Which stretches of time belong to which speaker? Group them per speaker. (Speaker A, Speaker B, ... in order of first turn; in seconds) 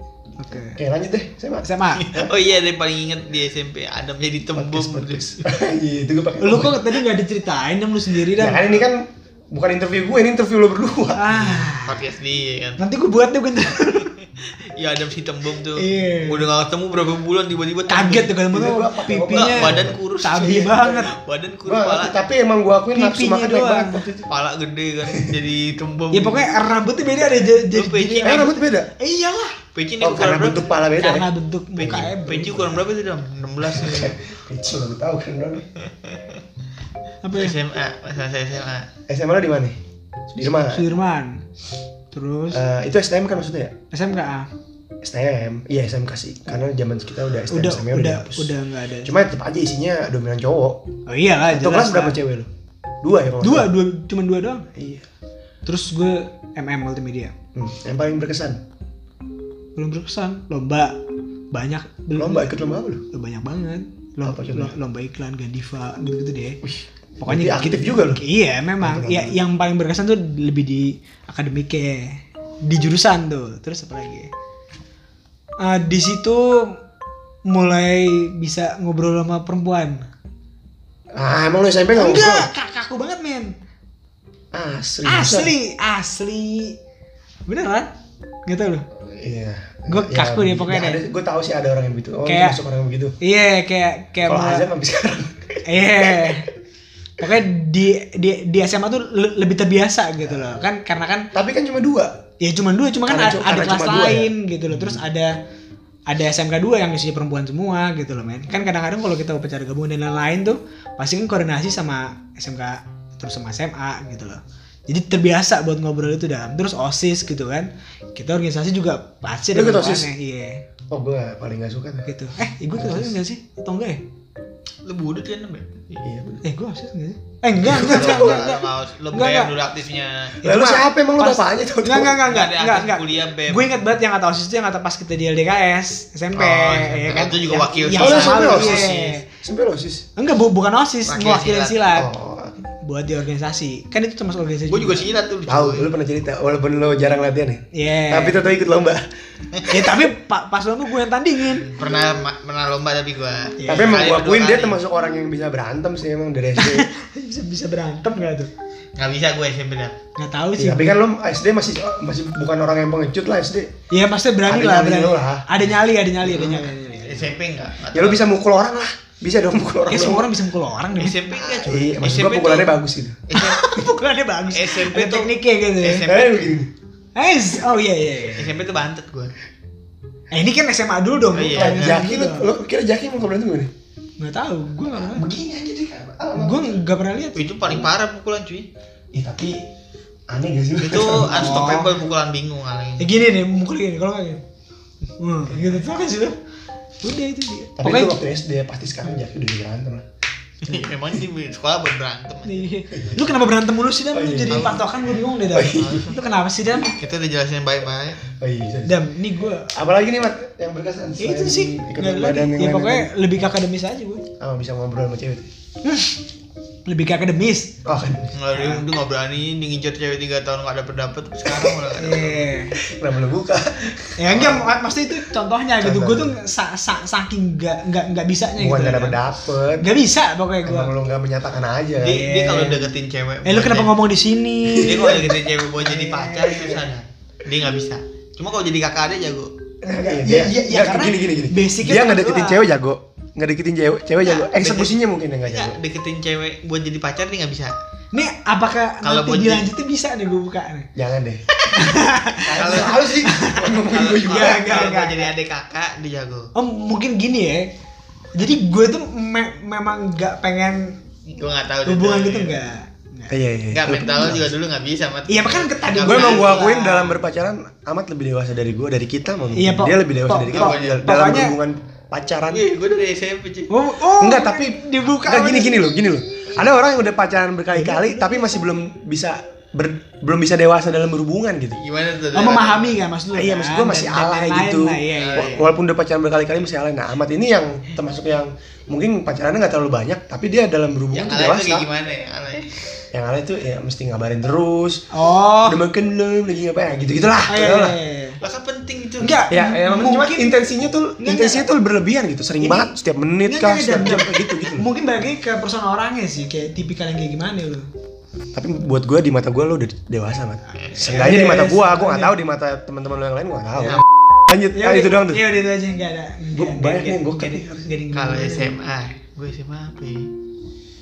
Speaker A: 0.4-0.8, 1.6-2.1, 6.4-8.8, 11.1-12.0, 12.8-14.1, 15.8-16.5, 17.9-21.1, 22.9-24.1, 26.1-29.6, 31.0-32.7, 37.2-37.5, 40.7-41.4, 42.1-42.6, 43.9-44.5, 47.5-49.1, 51.1-52.2, 53.4-54.7, 55.6-57.3, 59.8-60.9, 61.5-62.6, 63.1-66.6, 67.2-74.3, 75.6-76.8, 77.5-80.1, 81.9-83.5, 85.0-86.8, 87.5-87.9, 88.5-88.8, 89.9-91.0, 92.2-92.6, 93.2-94.7, 95.7-96.5, 97.2-101.3, 102.4-105.3, 106.1-120.6, 122.0-124.0, 126.4-129.5, 130.4-139.2, 140.2-142.1, 142.8-145.1, 147.7-148.4, 149.7-151.7, 153.6-154.0, 156.6-158.5, 160.2-160.9, 163.9-167.3, 169.9-171.2, 173.3-176.1, 177.1-178.5, 180.3-182.5, 184.2-185.2, 186.3-187.4, 191.2-191.9, 193.0-194.4, 195.2-196.4, 197.0-198.2, 202.4-207.0, 208.8-209.7, 211.2-214.2, 215.8-216.2, 216.8-217.8, 218.5-218.8, 221.9-222.8, 224.2-229.2, 229.8-230.9, 232.0-232.9, 233.4-236.8, 239.8-242.6, 248.1-250.9, 251.7-255.3, 256.5-257.7, 258.3-261.0, 261.9-263.3, 265.3-267.2, 269.5-271.6, 273.7-275.9, 277.7-278.6, 282.3-285.6, 295.1-295.8, 297.5-298.4, 299.2-301.7, 302.6-302.9, 303.4-307.9, 310.9-312.4, 314.7-318.7
Speaker B: 0.5-2.3, 4.5-6.9, 8.3-11.7, 18.5-20.0, 20.6-21.0, 21.6-24.3, 28.2-28.9, 30.0-31.3, 31.8-32.1, 33.7-35.7, 39.1-39.8, 40.3-40.9, 42.5-43.7, 45.0-48.5, 49.0-50.8, 51.5-52.5, 53.0-53.7, 54.7-55.1, 57.5-58.6, 62.1-63.0, 64.2-64.7, 66.6-68.2, 68.8-69.4, 81.1-82.5, 84.5-85.5, 89.0-93.1, 94.2-96.4, 100.2-100.5, 101.3-102.2, 103.1-105.0, 119.5-120.1, 120.9-122.1, 122.7-123.1, 126.0-126.4, 127.6-128.5, 130.4-132.2, 137.9-140.1, 141.9-142.5, 145.5-149.1, 153.7-156.9, 160.6-163.7, 164.4-165.4, 167.9-170.3, 171.4-173.2, 176.0-176.7, 181.5-183.7, 184.9-186.8, 189.1-189.6, 190.3-191.7, 197.8-200.0, 202.9-203.3, 204.1-204.8, 205.5-206.0, 208.3-209.0, 209.7-213.1, 214.4-215.5, 217.8-218.3, 221.5-221.7, 222.8-224.6, 225.8-226.3, 228.6-229.9, 230.6-232.3, 234.6-235.3, 239.9-245.8, 250.9-251.4, 252.4-254.9, 263.3-264.5, 266.0-272.6, 274.1-281.8, 283.3-291.9, 293.1-295.1, 295.6-297.9, 299.5-304.9, 308.5-315.4, 316.5-317.9
Speaker C: 1.9-5.5, 11.8-12.8, 14.4-18.4, 19.3-22.2, 24.3-26.5, 27.4-28.6, 29.7-30.7, 31.8-34.1, 35.8-36.4, 37.3-38.9, 124.8-126.1, 127.6-130.4, 132.2-133.7, 136.3-139.2, 141.1-141.8, 144.7-145.9, 151.5-154.8, 158.9-159.9, 166.2-168.3, 170.9-173.8, 174.5-176.5, 178.3-179.3, 181.3-182.0, 187.3-188.7, 190.8-193.1, 200.6-202.7, 204.5-204.8, 205.7-206.2, 206.8-208.2, 218.3-222.5, 224.3-224.6, 232.0-234.0, 234.8-239.5, 244.2-244.9, 245.5-247.7, 249.0-249.7, 252.5-253.2, 253.8-256.5, 261.3-262.6, 263.7-266.7, 270.5-271.1, 272.5-273.7, 281.8-283.0, 285.1-285.7, 291.1-292.8, 298.4-299.4, 318.1-320.3